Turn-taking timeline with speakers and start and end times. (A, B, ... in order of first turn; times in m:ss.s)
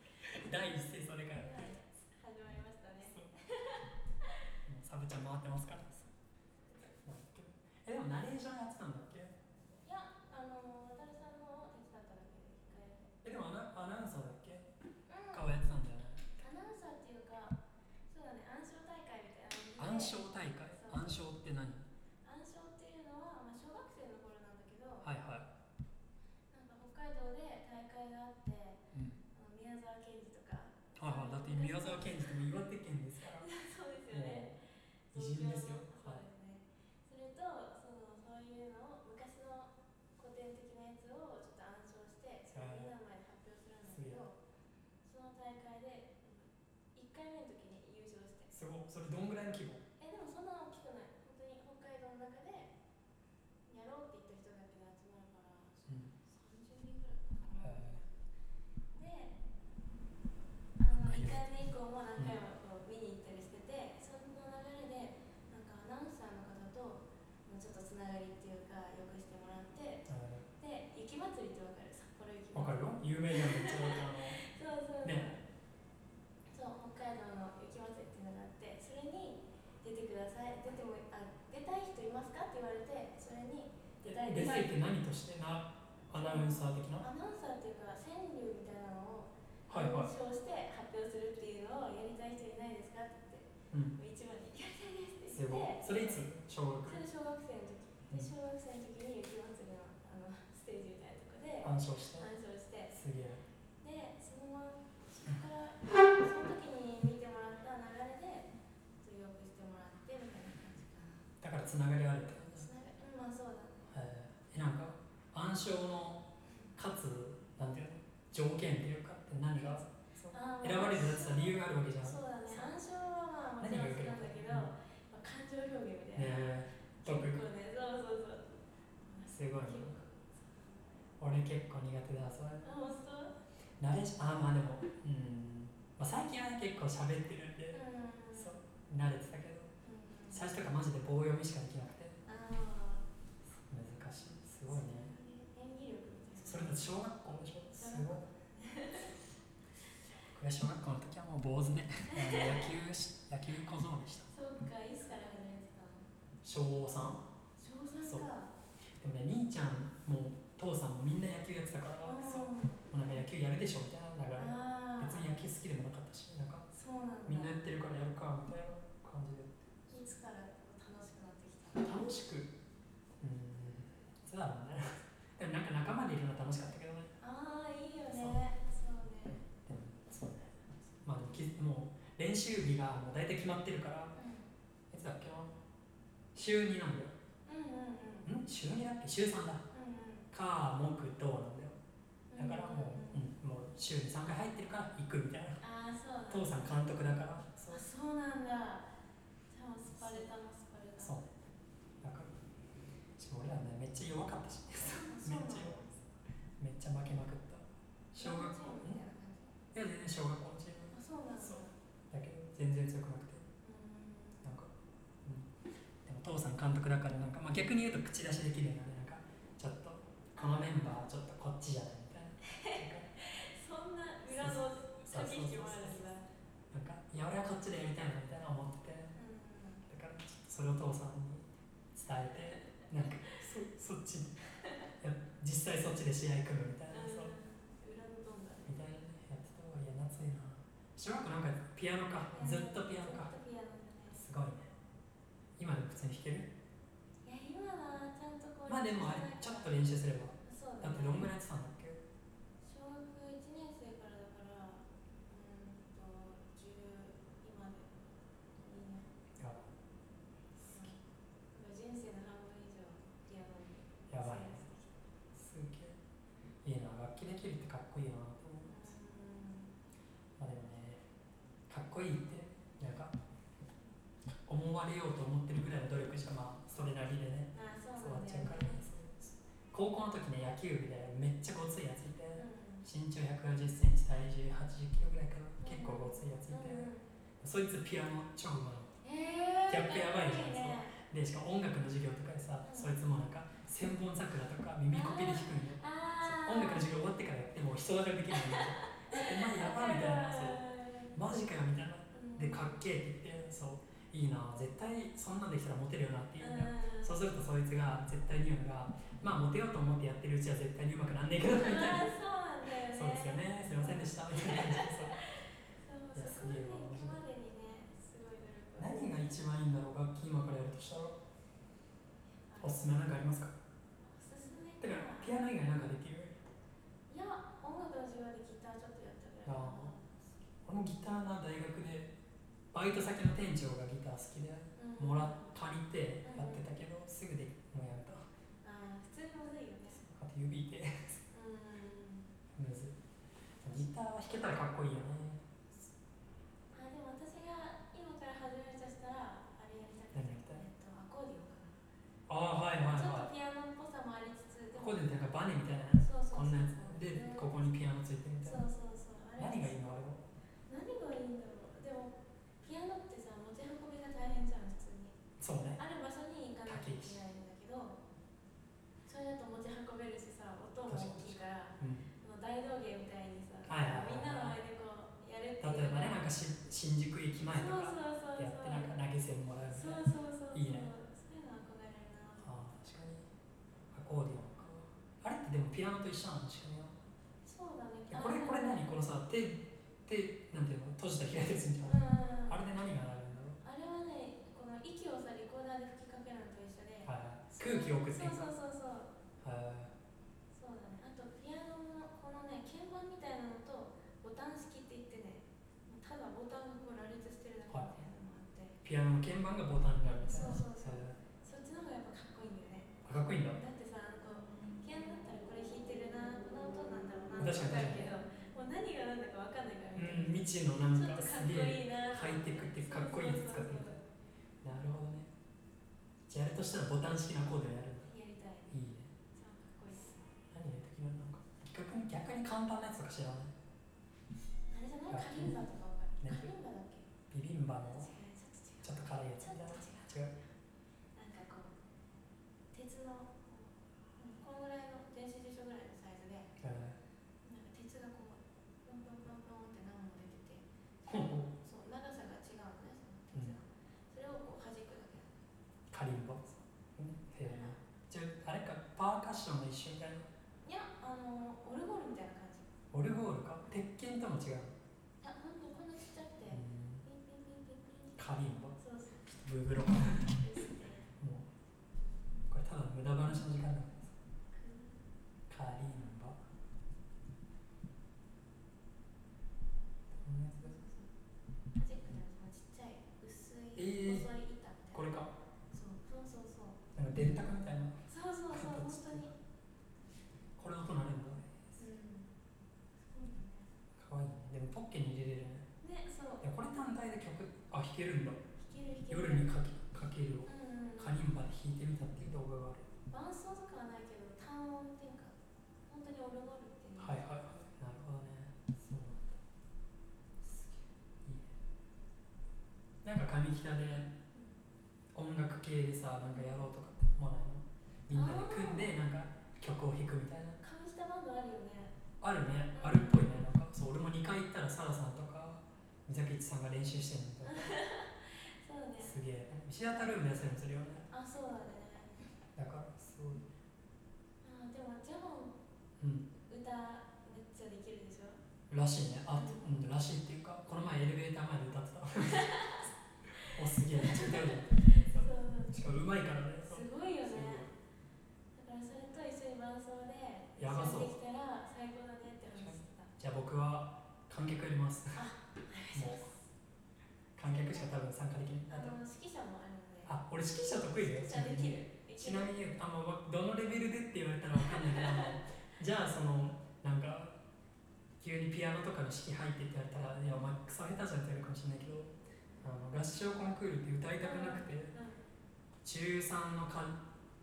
0:00.2-0:01.7 A
0:01.3-0:04.5 B
0:04.6-0:06.0 A
0:07.0-0:09.3 A
0:09.8-0:13.1 B
0:13.2-0:14.7 A
0:15.1-0:15.6 B
0:15.3-0:16.2 A
0:16.4-0:21.3 B
0:19.8-0:21.8 A
0:22.2-0:25.1 B
0:25.0-0:25.5 A
0:26.5-0:32.5 B
0:28.9-0:29.2 A
0:31.0-0:33.5 A
0:33.3-0:44.4 B
0:34.1-0:34.5 A
0:35.1-0:36.2 A
0:42.5-0:42.9 A
0:43.8-0:44.2 A
0:45.0-0:48.5 B
0:48.5-0:49.8 A
0:50.0-0:52.7 B
0:53.7-0:58.2 B
0:57.6-0:58.0 A
0:58.9-0:59.4 B
1:00.8-1:10.0 B
1:00.9-1:01.5 A
1:10.1-1:10.4 A
1:10.6-1:15.4 B
1:12.5-1:14.4 A
1:15.0-1:15.3 A
1:16.5-1:24.8 B
1:24.0-1:27.1 A
1:26.1-1:36.2 B
1:29.7-1:30.1 A
1:33.7-1:34.0 A
1:35.3-1:37.0 A
1:36.8-1:42.9 B
1:41.6-1:42.3 A
1:42.9-1:43.4 A
1:43.8-1:51.3 B
1:51.4-1:52.7 A
1:52.5-1:53.8 B
1:53.9-2:02.7 A
2:00.3-2:06.4 B
2:03.6-2:04.7 A
2:06.1-2:07.4 A
2:07.0-2:11.1 B
2:09.3-2:10.0 A
2:11.2-2:12.6 A
2:12.6-2:13.3 B
2:13.8-2:17.8 A
2:17.7-2:18.6 B
2:18.3-2:19.7 A
2:19.8-2:20.4 B
2:20.3-2:22.2 A
2:22.2-2:23.0 B
2:23.7-2:25.1 A
2:24.7-2:26.9 B
2:26.4-2:28.3 A
2:27.7-2:29.1 B
2:30.2-2:34.3 A
2:32.1-2:32.7 B
2:34.3-2:36.1 B
2:36.4-2:37.2 A
2:37.6-2:38.5 B
2:38.0-2:38.3 A
2:39.0-2:46.7 A
2:42.0-2:43.2 B
2:44.4-2:45.3 B
2:46.7-2:47.6 B
2:47.2-2:49.6 A
2:49.9-2:52.1 B
2:51.8-2:52.5 A
2:53.2-2:54.8 A
2:55.4-2:57.2 A
2:57.2-2:59.4 B
2:58.1-2:58.4 A
2:59.3-3:04.2 A
3:04.2-3:04.5 B
3:04.9-3:05.6 A
3:06.3-3:07.1 A
3:07.4-3:08.3 B
3:08.2-3:09.6 A
3:09.7-3:10.3 B
3:10.3-3:11.8 A
3:12.3-3:13.3 B
3:12.4-3:15.6 A
3:15.6-3:16.7 B
3:16.3-3:17.8 A
3:17.7-3:18.9 B
3:19.5-3:21.2 B
3:19.9-3:20.3 A
3:21.0-3:21.3 A
3:22.0-3:22.3 A
3:23.2-3:26.0 A
3:24.8-3:25.8 B
3:26.6-3:29.0 A
3:28.2-3:29.6 B
3:29.7-3:33.4 A
3:30.9-3:31.8 B
3:33.6-3:34.5 B
3:34.4-3:34.7 A
3:35.2-3:35.5 A
3:36.0-3:43.1 A
3:40.4-3:40.9 B
3:42.5-3:46.2 B
3:44.3-3:46.1 A
3:46.7-3:49.1 A
3:49.2-3:49.8 B
3:49.9-3:54.4 A
3:53.0-3:53.4 B
3:55.0-3:57.3 A
3:56.9-3:58.7 B
3:58.6-4:03.3 A
4:02.3-4:04.2 B
4:04.1-4:04.7 A
4:05.6-4:06.5 A
4:07.2-4:09.9 B
4:08.7-4:12.0 A
4:10.4-4:11.3 B
4:12.6-4:17.9 B
4:18.6-4:19.1 B
4:19.4-4:19.7 A
4:20.6-4:20.9 A
4:20.7-4:21.0 B
4:21.5-4:25.0 B
4:24.1-4:24.6 A
4:25.3-4:26.0 A
4:26.6-4:28.9 A
4:28.6-4:29.7 B
4:30.4-4:31.0 A
4:31.7-4:33.1 A
4:34.4-4:46.9 A
4:37.5-4:38.8 B
4:42.4-4:42.9 B
4:45.6-4:47.1 B
4:47.4-4:48.9 A
4:49.0-4:50.9 B
4:49.7-5:00.6 A
4:52.6-4:52.9 B
4:54.9-4:56.9 B
4:58.3-5:01.1 B
5:01.1-5:12.1 A
5:02.1-5:02.8 B
5:06.4-5:07.2 B
5:11.6-5:19.2 B
5:12.7-5:15.2 A
5:16.1-5:17.2 A
5:18.8-5:21.2 A
5:22.5-5:22.9 B
5:22.6-5:23.5 A
5:24.0-5:25.4 B
5:24.8-5:26.4 A
5:27.1-5:30.5 B
5:29.4-5:29.9 A
5:30.6-5:32.1 A
5:32.7-5:38.2 A
5:34.8-5:35.6 B
5:36.2-5:36.6 B
5:38.6-5:40.0 B
5:40.0-5:41.2 A
5:41.3-5:42.3 B
5:42.5-5:42.9 A
5:43.6-5:45.5 A
5:46.7-5:51.8 B
5:50.1-5:50.6 A
5:52.3-5:53.3 A
5:52.9-5:55.1 B
5:54.7-5:58.6 A
5:56.0-5:57.7 B
5:58.4-6:00.0 B
5:59.4-6:00.2 A
6:00.7-6:05.2 B
6:05.4-6:05.8 A
6:05.8-6:08.0 B
6:06.6-6:07.2 A
6:09.0-6:16.2 B
6:10.9-6:12.0 A
6:13.6-6:14.6 A
6:15.6-6:20.9 A
6:17.5-6:18.9 B
6:19.7-6:22.5 B
6:22.4-6:23.3 A
6:23.9-6:27.0 A
6:27.4-6:28.9 B
6:28.1-6:33.6 A
6:31.8-6:32.6 B
6:33.6-6:39.1 B
6:37.0-6:38.5 A
6:39.4-6:39.9 A
6:40.5-6:48.8 B
6:47.7-6:47.9 A
6:48.8-6:51.2 A
6:50.1-7:04.0 B
6:53.0-6:53.6 A
6:57.4-6:58.1 A
7:00.0-7:04.0 A
7:04.6-7:05.3 A
7:06.3-7:08.1 A
7:08.0-7:08.8 B
7:08.7-7:09.1 A
7:09.3-7:10.2 B
7:10.5-7:13.5 A
7:14.7-7:17.1 B
7:15.1-7:15.6 A
7:16.2-7:16.5 A
7:17.3-7:18.1 A
7:17.9-7:20.3 B
7:18.8-7:20.3 A
7:21.1-7:21.7 B
7:22.7-7:26.5 B
7:26.6-7:27.0 A
7:27.4-7:30.6 B
7:31.0-7:31.5 A
7:31.5-7:35.3 B
7:35.9-7:40.2 A
7:37.4-7:37.8 B
7:40.6-7:42.7 B
7:42.9-7:44.8 A
7:45.2-7:49.3 B
7:46.5-7:47.0 A
7:48.2-7:50.4 A
7:50.4-7:51.1 B
7:51.2-7:51.5 A
7:52.5-7:54.1 A
7:54.5-7:55.0 B
7:55.5-7:56.4 A
8:00.2-8:00.8 A
8:00.6-8:01.1 B
8:01.8-8:05.1 B
8:03.8-8:04.3 A
8:04.9-8:05.3 A
8:05.7-8:06.8 B
8:06.9-8:09.3 A
8:08.1-8:09.3 B
8:10.6-8:11.6 A
8:11.8-8:12.3 B
8:13.0-8:13.7 B
8:14.0-8:15.7 A
8:15.8-8:16.4 B
8:16.4-8:18.4 A
8:18.6-8:19.5 B
8:19.1-8:22.9 A
8:20.4-8:21.2 B
8:23.1-8:27.3 B
8:27.0-8:29.4 A
8:30.4-8:31.5 A
8:33.0-8:34.1 A
8:35.1-8:40.6 A
8:38.1-8:38.9 B
8:40.6-8:42.0 B
8:42.2-8:47.7 A
8:42.7-8:43.3 B
8:47.4-8:49.2 B
8:49.0-8:51.1 A
8:51.1-8:52.1 B
8:52.6-8:53.4 A
8:54.4-8:55.6 B
8:56.0-8:56.3 A
8:56.4-8:58.4 B
8:58.7-9:02.7 A
8:59.3-8:59.8 B
9:02.3-9:05.7 B
9:03.4-9:07.7 A
9:06.6-9:07.7 B
9:08.5-9:13.1 B
9:10.6-9:11.1 A
9:12.5-9:15.2 A
9:15.1-9:16.5 B
9:15.9-9:16.3 A
9:17.4-9:19.0 A
9:17.4-9:18.0 B
9:18.7-9:20.2 B
9:20.0-9:27.4 A
9:20.9-9:22.5 B
9:24.6-9:25.4 B
9:28.2-9:34.9 A
9:34.2-9:35.2 B
9:35.8-9:37.0 A